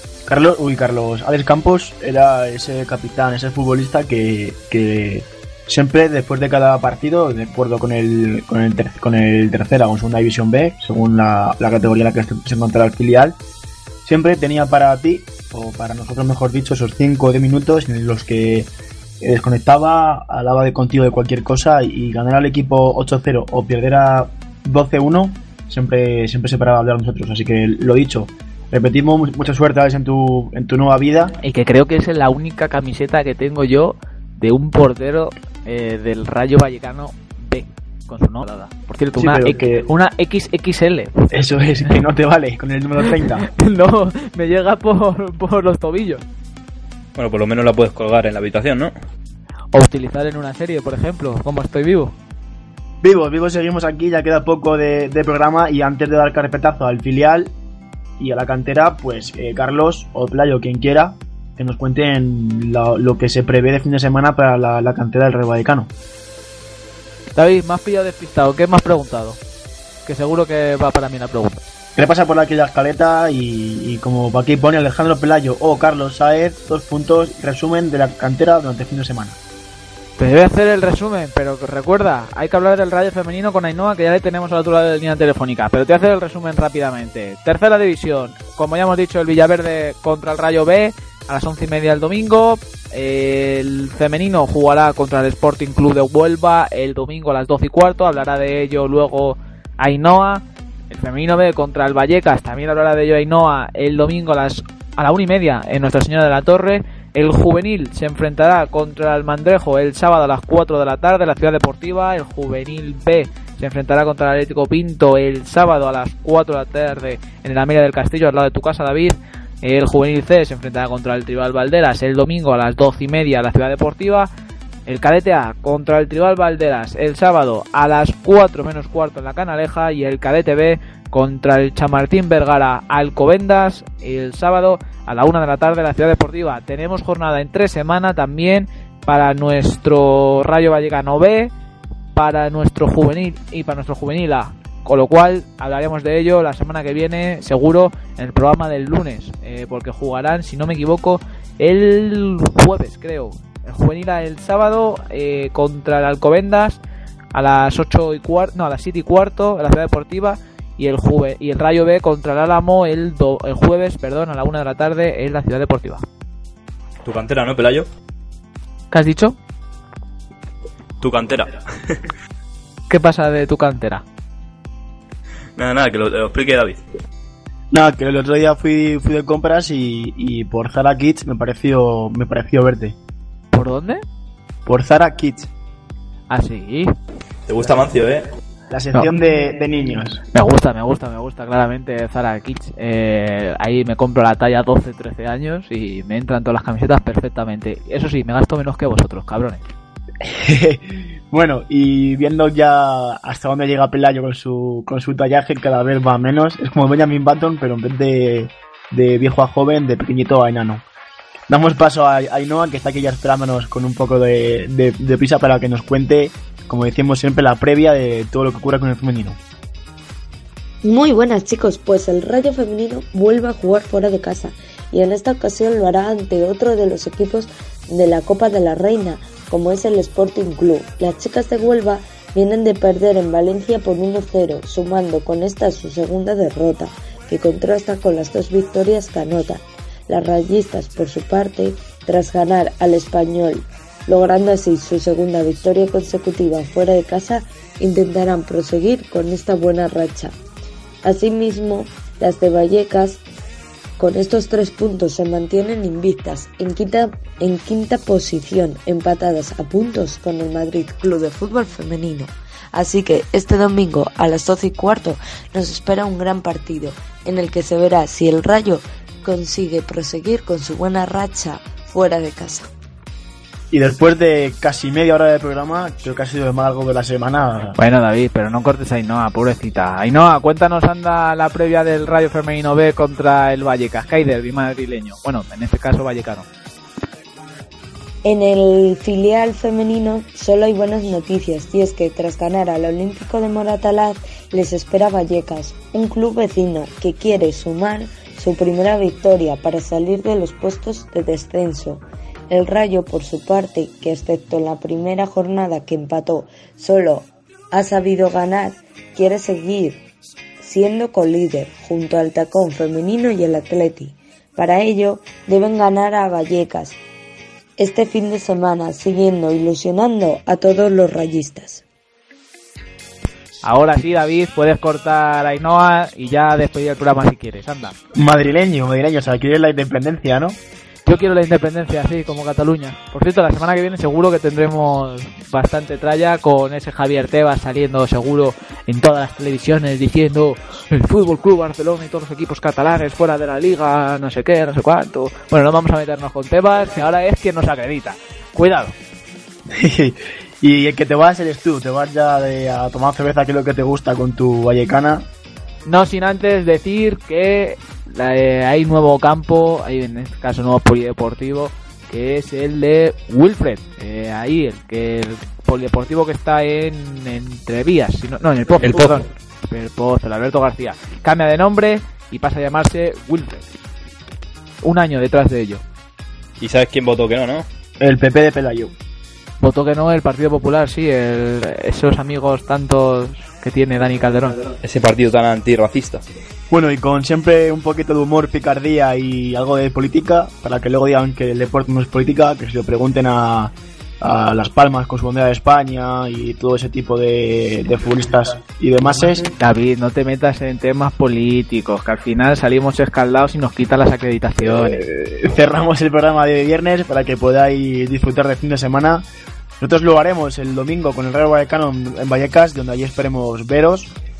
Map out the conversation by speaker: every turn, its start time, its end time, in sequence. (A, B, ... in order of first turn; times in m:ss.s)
0:00.3-0:13.4 A
0:14.0-0:31.4 A
0:31.4-0:41.3 B
0:39.2-0:39.9 A
0:41.3-0:43.5 A
0:43.1-0:46.2 B
0:47.2-0:48.9 C
0:49.7-0:52.1 B
0:53.0-0:57.5 A
0:58.2-1:05.9 A
1:07.3-1:09.4 B
1:10.0-1:11.6 B
1:12.0-1:19.4 A
1:20.2-2:04.3 B
2:04.9-2:21.5 B
2:22.1-2:36.8 B
2:37.3-2:46.0 B
2:47.0-2:47.9 C
2:48.9-2:49.4 B
2:51.0-2:52.0 C
2:52.9-2:54.0 B
2:55.6-2:56.8 C
2:57.7-3:03.0 A
3:03.5-3:04.0 B
3:04.6-3:05.5 A
3:06.3-3:06.9 B
3:07.5-3:08.3 C
3:08.7-3:10.2 A
3:10.3-3:19.6 B
3:20.2-3:30.8 A
3:31.5-3:39.4 A
3:40.8-4:10.4 D
4:11.0-4:13.2 D
4:14.0-4:32.7 D
4:33.7-4:37.8 A
4:37.8-4:46.5 B
4:48.2-5:10.0 D
5:10.6-5:17.0 D
5:17.8-5:21.8 D
5:23.6-5:27.9 B
5:28.1-5:30.6 A
5:31.0-5:48.9 B
5:49.7-5:55.3 A
5:55.8-6:13.7 B
6:08.8-6:09.2 C
6:14.8-6:15.8 B
6:16.6-6:17.6 C
6:18.0-6:18.9 A
6:19.6-6:24.6 B
6:24.8-6:26.2 C
6:26.7-6:39.5 A
6:39.6-6:45.0 B
6:44.8-6:49.2 A
6:49.8-6:54.1 A